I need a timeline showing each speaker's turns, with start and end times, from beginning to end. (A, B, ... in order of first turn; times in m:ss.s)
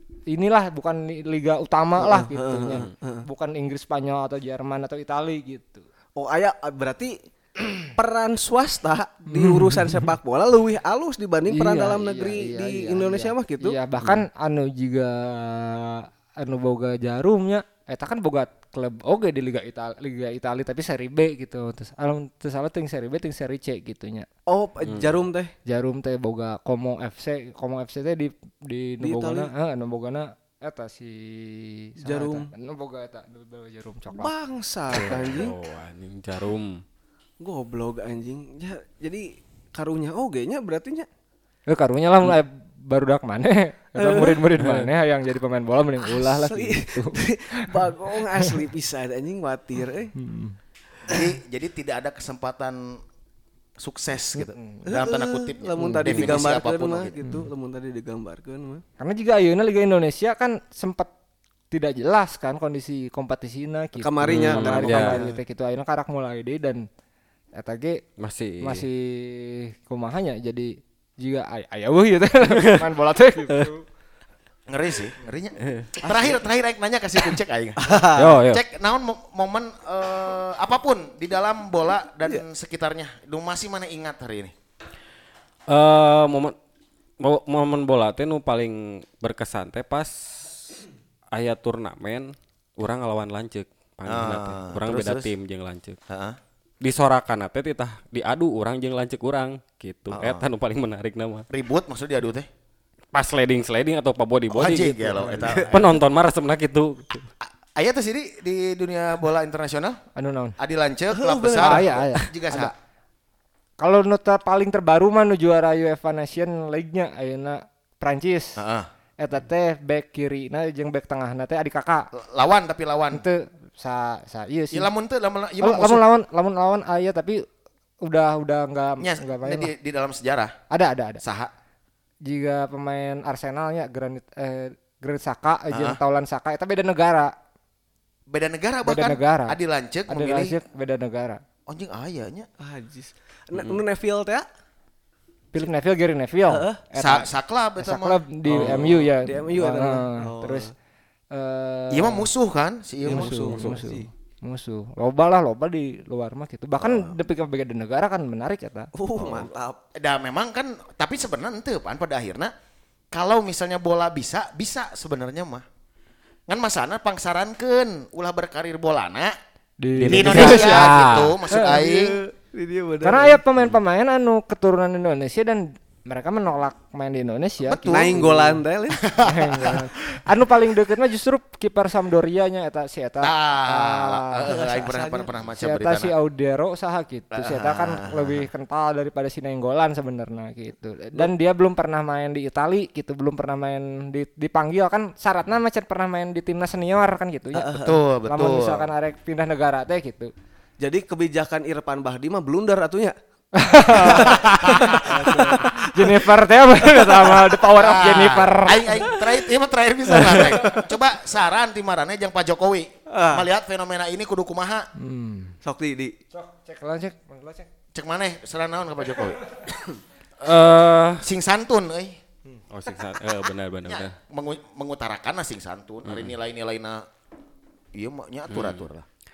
0:00.3-0:05.9 A
0:02.0-0:03.3 B
0:06.2-0:07.2 B
0:07.9-0:13.8 B
0:09.3-0:10.1 A
0:11.5-0:24.3 A
0:24.5-0:25.5 B
0:24.9-0:25.2 C
0:25.7-0:34.3 A
0:29.0-0:29.5 B
0:32.0-0:32.5 B
0:34.1-0:35.6 B
0:34.9-0:36.8 C
0:37.4-0:41.1 B
0:41.7-0:47.9 A
0:44.0-0:44.4 B
0:44.6-0:44.9 C
0:46.0-0:50.1 B
0:50.2-0:50.6 A
0:51.1-0:53.0 D
0:53.8-0:57.2 D
0:54.4-0:54.8 A
0:54.9-0:58.8 B
0:55.8-0:56.4 A
0:57.2-0:57.5 A
0:59.0-1:01.1 A
1:01.7-1:06.9 A
1:04.0-1:05.4 B
1:04.2-1:05.2 C
1:07.6-1:08.0 A
1:08.2-1:08.9 C
1:08.6-1:13.8 A
1:12.5-1:12.8 C
1:14.7-1:24.5 D
1:16.0-1:16.4 B
1:17.8-1:18.4 B
1:18.2-1:18.6 C
1:25.7-1:26.6 C
1:27.2-1:30.6 C
1:31.3-1:36.0 C
1:34.1-1:35.3 D
1:36.1-1:36.4 D
1:36.8-1:41.5 C
1:40.1-1:40.4 D
1:41.5-1:42.5 D
1:43.1-1:45.2 C
1:44.5-1:46.0 D
1:45.2-1:45.8 B
1:45.7-1:47.3 C
1:47.4-1:50.0 D
1:50.2-1:50.6 A
1:50.6-1:52.7 D
1:51.1-1:52.0 B
1:51.6-1:52.7 A
1:53.8-1:58.6 A
1:58.6-1:58.9 D
1:59.2-2:02.1 A
2:02.1-2:03.2 D
2:03.1-2:04.9 A
2:04.7-2:06.0 D
2:05.6-2:07.5 A
2:08.0-2:09.7 A
2:09.0-2:10.5 D
2:10.7-2:11.2 A
2:11.2-2:11.5 D
2:12.2-2:17.3 A
2:15.7-2:16.0 D
2:18.3-2:20.6 D
2:18.8-2:19.6 A
2:20.1-2:21.4 A
2:21.7-2:22.5 D
2:22.6-2:24.5 B
2:25.5-2:27.3 A
2:26.5-2:26.8 B
2:27.0-2:28.8 D
2:27.8-2:30.7 A
2:28.5-2:30.7 B
2:31.3-2:32.3 A
2:31.9-2:33.7 D
2:33.0-2:34.1 B
2:33.1-2:38.9 A
2:36.8-2:37.1 B
2:39.0-2:39.8 B
2:39.2-2:42.5 D
2:43.1-2:45.6 D
2:46.5-2:49.3 D
2:49.8-2:51.9 A
2:50.0-2:51.4 C
2:50.0-2:52.2 D
2:51.6-2:53.4 B
2:53.0-2:58.3 A
2:57.6-2:59.9 D
2:57.9-2:59.0 B
2:59.2-3:04.5 A
3:03.2-3:06.1 D
3:04.5-3:05.3 B
3:05.6-3:20.3 A
3:07.4-3:08.5 D
3:17.5-3:17.9 B
3:17.7-3:18.9 D
3:20.8-3:23.2 B
3:23.6-3:29.2 A
3:23.9-3:25.6 D
3:23.9-3:26.1 B
3:26.9-3:27.4 B
3:27.8-3:34.9 D
3:30.2-3:30.9 A
3:33.1-3:33.4 B
3:35.0-3:35.6 A
3:35.6-3:36.1 B
3:36.3-3:37.7 A
3:37.9-3:39.4 D
3:40.4-3:41.3 C
3:41.2-3:42.2 D
3:42.7-3:44.1 C
3:43.8-3:47.1 D
3:46.1-3:46.3 C
3:48.0-3:49.1 D
3:48.5-3:48.8 C